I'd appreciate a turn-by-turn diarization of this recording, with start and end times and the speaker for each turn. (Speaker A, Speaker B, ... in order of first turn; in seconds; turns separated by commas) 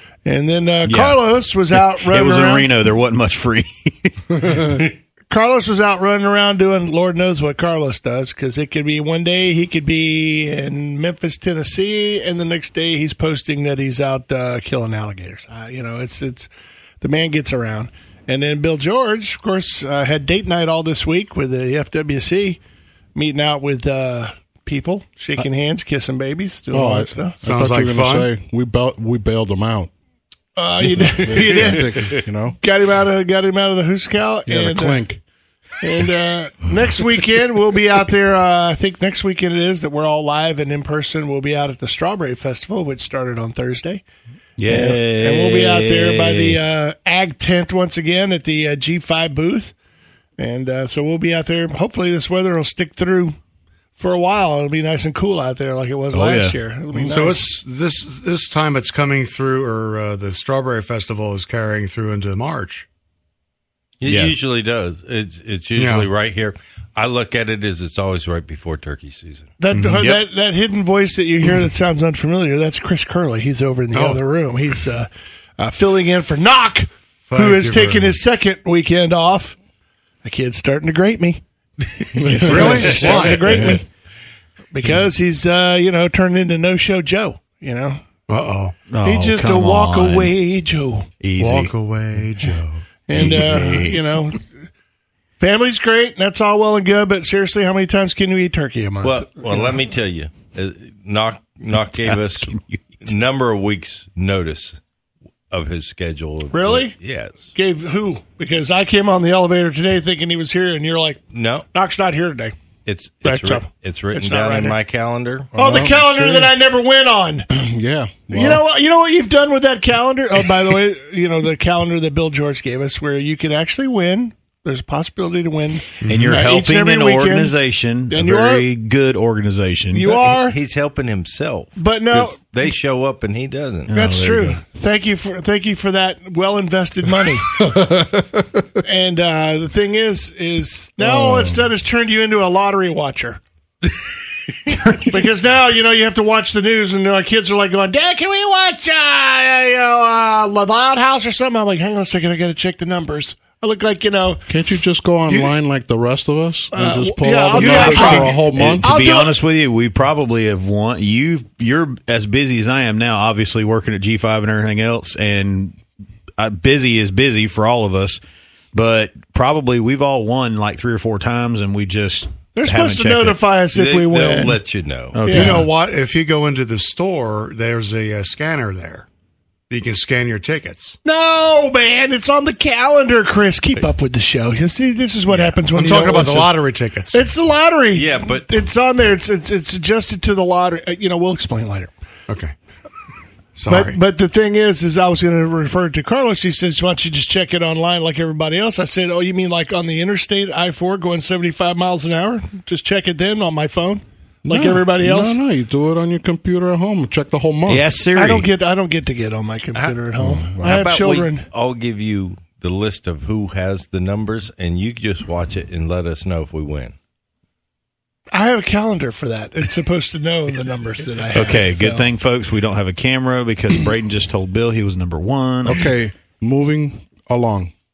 Speaker A: 0.2-2.7, Speaker B: 0.8-4.8, Speaker A: 5.3-16.5, Speaker A: 17.0-22.6, Speaker A: 23.1-27.4, Speaker C: 26.7-29.9, Speaker D: 27.4-28.3, Speaker A: 30.6-35.0, Speaker C: 30.9-32.6, Speaker C: 34.5-35.2, Speaker A: 35.8-44.0, Speaker B: 44.6-46.6, Speaker A: 44.7-49.7, Speaker A: 50.4-53.4, Speaker A: 54.0-57.5, Speaker B: 56.1-56.6, Speaker D: 57.0-62.9, Speaker E: 64.0-69.5, Speaker B: 64.1-64.3, Speaker D: 65.8-66.1, Speaker A: 69.6-79.6, Speaker D: 69.7-70.1, Speaker D: 73.9-74.2, Speaker D: 77.3-78.2, Speaker A: 80.2-81.4, Speaker A: 82.2-83.9, Speaker C: 82.2-83.8, Speaker D: 82.4-83.8, Speaker A: 84.7-88.0, Speaker D: 88.3-88.8, Speaker B: 88.9-90.3, Speaker A: 89.0-91.1, Speaker B: 91.2-91.7, Speaker D: 91.4-92.8, Speaker A: 93.1-94.5, Speaker B: 93.1-94.0, Speaker A: 95.4-99.8, Speaker E: 99.0-104.8, Speaker B: 102.0-102.8, Speaker E: 105.5-107.5, Speaker A: 106.5-107.0, Speaker A: 107.5-111.2, Speaker E: 111.3-111.7, Speaker A: 111.7-112.6, Speaker E: 112.9-115.5, Speaker A: 113.2-114.8, Speaker C: 115.5-116.5, Speaker A: 115.5-117.5, Speaker C: 117.5-118.6, Speaker A: 118.3-127.6, Speaker D: 126.0-126.4, Speaker B: 126.1-130.3, Speaker A: 128.1-128.7, Speaker A: 129.9-130.6, Speaker E: 130.4-133.9, Speaker A: 131.8-132.4, Speaker B: 133.9-134.6, Speaker A: 133.9-137.7, Speaker C: 137.5-138.7, Speaker A: 138.8-143.4, Speaker C: 141.0-141.6, Speaker A: 144.9-154.4, Speaker C: 154.5-159.0, Speaker A: 156.7-159.3, Speaker B: 157.5-165.8, Speaker B: 166.4-168.2, Speaker B: 168.7-173.4, Speaker A: 172.6-174.6, Speaker E: 173.7-175.2, Speaker B: 175.1-175.7, Speaker A: 175.3-175.7, Speaker D: 175.3-179.1, Speaker D: 179.7-181.0, Speaker A: 181.0-186.6, Speaker D: 185.3-187.2, Speaker A: 187.1-191.9, Speaker E: 187.9-188.5, Speaker D: 192.3-192.5, Speaker D: 193.6-194.0, Speaker A: 193.7-205.4, Speaker C: 204.4-207.9, Speaker B: 207.7-208.5, Speaker A: 208.1-211.5, Speaker C: 210.2-210.8, Speaker E: 210.6-216.9, Speaker A: 218.3-222.1, Speaker B: 221.3-225.9, Speaker C: 225.7-227.7